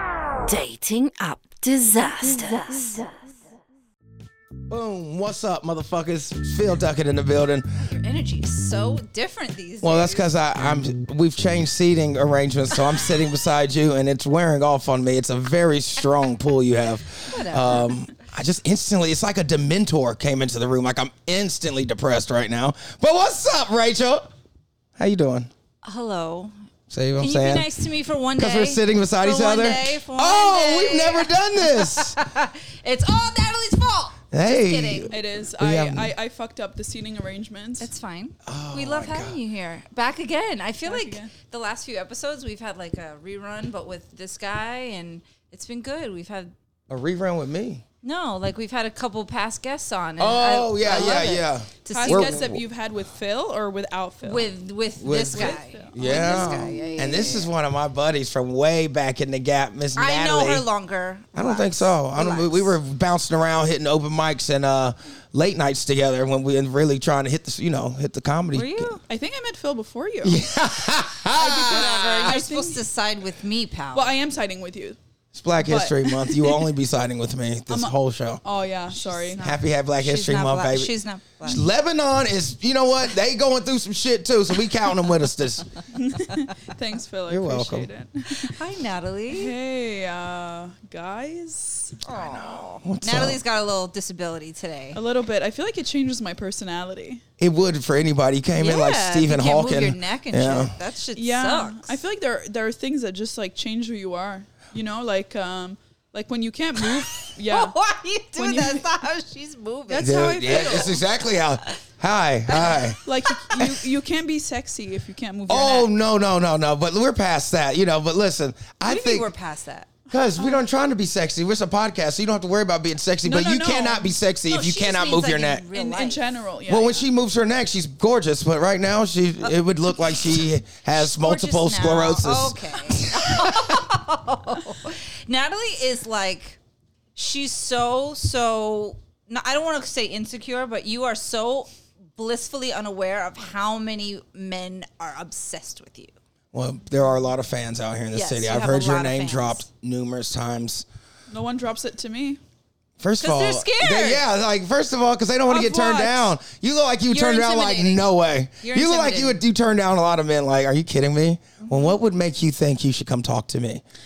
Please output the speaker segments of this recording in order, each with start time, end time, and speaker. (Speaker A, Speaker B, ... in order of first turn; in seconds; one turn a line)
Speaker A: 0.5-3.2
Speaker B: 1.3-3.1
Speaker C: 4.7-7.7
Speaker B: 7.8-10.2
Speaker C: 9.8-24.3
Speaker B: 17.2-17.9
Speaker C: 25.0-25.5
Speaker B: 25.8-26.5
Speaker C: 26.9-27.7
Speaker B: 27.2-35.1
Speaker C: 28.4-32.2
Speaker C: 34.3-36.1
Speaker D: 35.1-37.9
Speaker B: 37.8-46.5
Speaker C: 38.4-39.4
Speaker D: 40.8-41.3
Speaker C: 46.9-47.8
Speaker B: 48.0-52.5
Speaker C: 50.2-52.6
Speaker D: 51.9-54.5
Speaker B: 54.2-57.5
Speaker C: 55.0-60.6
Speaker D: 55.3-56.8
Speaker B: 60.0-62.8
Speaker C: 61.3-69.0
Speaker B: 68.5-69.0
Speaker D: 69.1-70.4
Speaker C: 70.2-72.4
Speaker B: 71.3-74.1
Speaker D: 71.7-72.8
Speaker D: 73.9-75.0
Speaker C: 75.3-78.4
Speaker D: 75.6-76.7
Speaker D: 77.7-79.4
Speaker B: 78.9-81.6
Speaker C: 79.4-85.8
Speaker D: 85.9-88.6
Speaker C: 87.3-87.9
Speaker B: 88.3-89.5
Speaker D: 89.3-92.0
Speaker B: 92.0-95.0
Speaker C: 92.1-93.4
Speaker D: 94.9-97.2
Speaker C: 97.4-100.7
Speaker B: 98.6-102.0
Speaker D: 101.1-107.8
Speaker B: 106.8-111.0
Speaker D: 108.4-108.9
Speaker D: 109.9-111.0
Speaker C: 110.0-113.0
Speaker B: 112.5-113.4
Speaker D: 113.0-115.9
Speaker C: 115.5-119.3
Speaker B: 118.8-119.9
Speaker C: 120.1-125.6
Speaker D: 120.4-120.6
Speaker D: 123.2-124.1
Speaker B: 124.5-126.2
Speaker D: 125.7-127.1
Speaker C: 126.7-133.8
Speaker B: 130.9-136.6
Speaker B: 137.2-146.1
Speaker C: 146.5-150.8
Speaker B: 148.1-149.7
Speaker D: 151.3-152.4
Speaker C: 153.0-163.8
Speaker B: 153.2-154.2
Speaker D: 155.4-156.3
Speaker B: 157.1-158.1
Speaker B: 158.6-159.4